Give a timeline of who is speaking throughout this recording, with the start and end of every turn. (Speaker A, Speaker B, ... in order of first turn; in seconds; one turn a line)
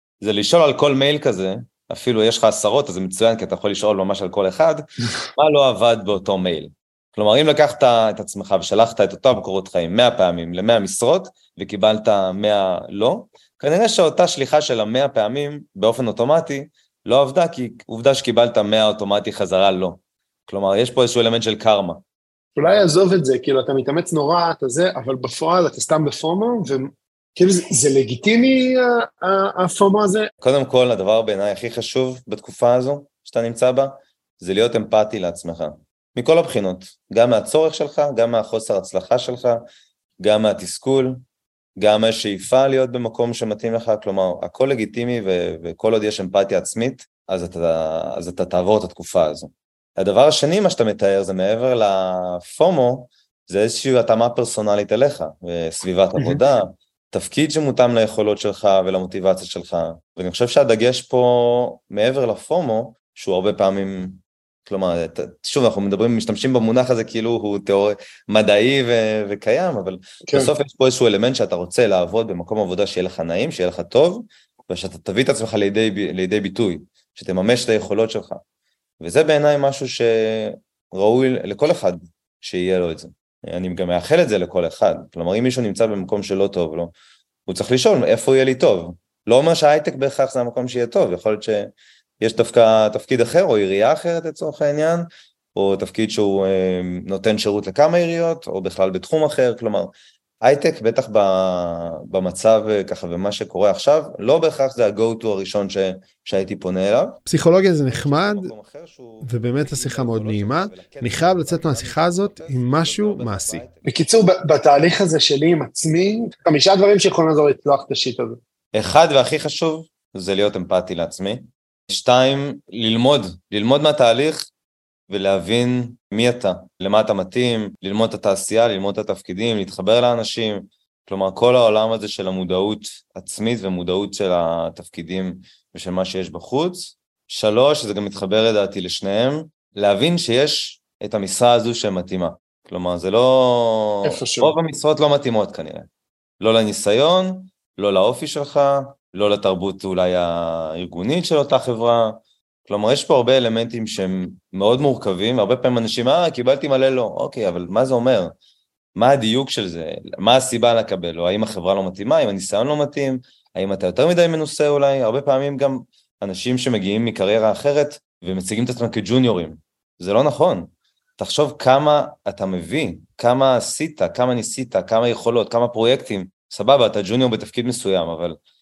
Speaker A: 0.2-22.0
Speaker B: 22.6-30.3
Speaker A: 30.4-39.6
Speaker A: 40.2-41.2
Speaker A: 41.8-78.4
Speaker A: 79.0-86.9
Speaker A: 87.5-99.9
Speaker A: 100.4-107.2
Speaker C: 107.2-108.5
Speaker A: 107.8-113.9
Speaker C: 109.2-113.6
Speaker B: 113.8-118.4
Speaker A: 118.7-124.5
Speaker A: 125.1-145.9
Speaker B: 144.0-144.5
Speaker A: 146.4-158.3
Speaker A: 158.9-178.4